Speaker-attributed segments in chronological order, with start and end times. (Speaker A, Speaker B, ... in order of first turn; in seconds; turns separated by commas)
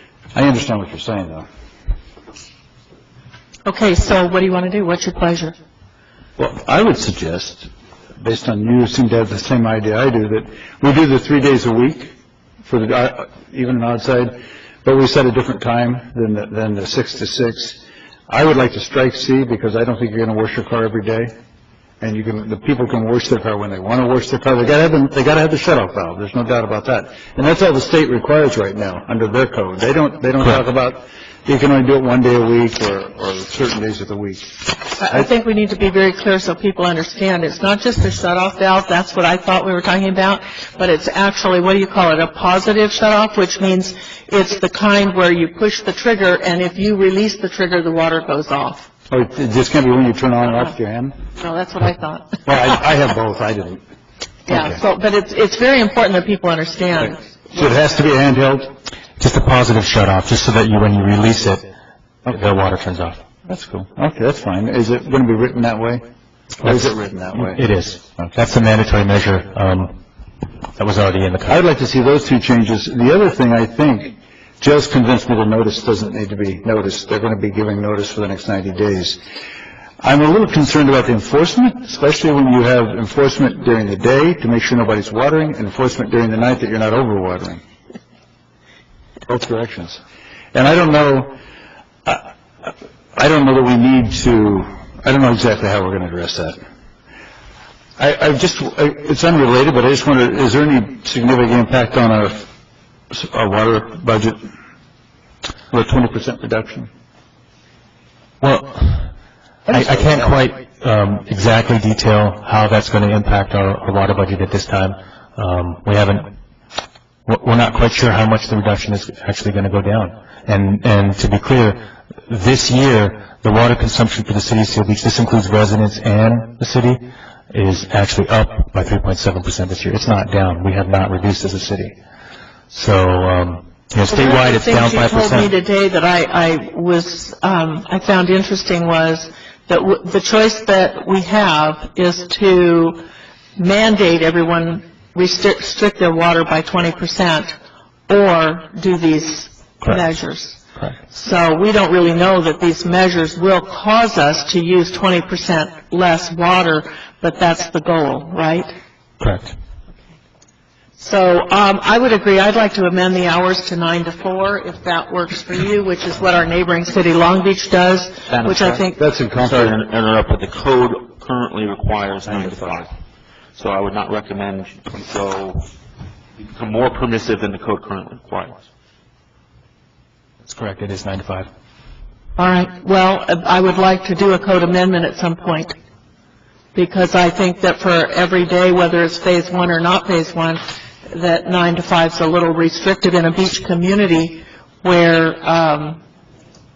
Speaker A: 0.3-1.4, Speaker B: 3.7-5.5, Speaker A: 6.4-12.1, Speaker A: 12.7-21.3, Speaker A: 22.0-35.3, Speaker B: 35.0-48.9, Speaker A: 49.1-51.1, Speaker B: 51.4-52.4, Speaker A: 52.5-53.8, Speaker B: 54.5-57.8, Speaker A: 54.5-54.8, Speaker A: 57.0-58.7, Speaker C: 59.2-61.6, Speaker C: 62.3-63.2, Speaker A: 63.5-66.0, Speaker C: 66.6-70.0, Speaker A: 66.6-67.6, Speaker C: 70.8-71.6, Speaker A: 71.5-79.2, Speaker A: 80.0-87.6, Speaker A: 89.3-90.0, Speaker A: 90.5-91.3, Speaker A: 92.0-96.6, Speaker A: 98.0-102.5, Speaker A: 103.1-104.4, Speaker A: 105.7-106.9, Speaker C: 108.4-109.1, Speaker C: 109.7-116.3, Speaker A: 109.7-110.1, Speaker C: 117.2-131.9, Speaker C: 132.7-135.5, Speaker B: 134.1-143.0, Speaker B: 143.6-147.5, Speaker B: 148.1-150.6, Speaker B: 151.1-158.7, Speaker C: 159.2-159.6, Speaker B: 161.0-169.0, Speaker D: 168.3-172.9, Speaker A: 169.0-169.8, Speaker D: 173.6-175.7, Speaker D: 176.4-178.6, Speaker C: 180.4-181.5, Speaker B: 182.4-185.7, Speaker B: 186.8-196.0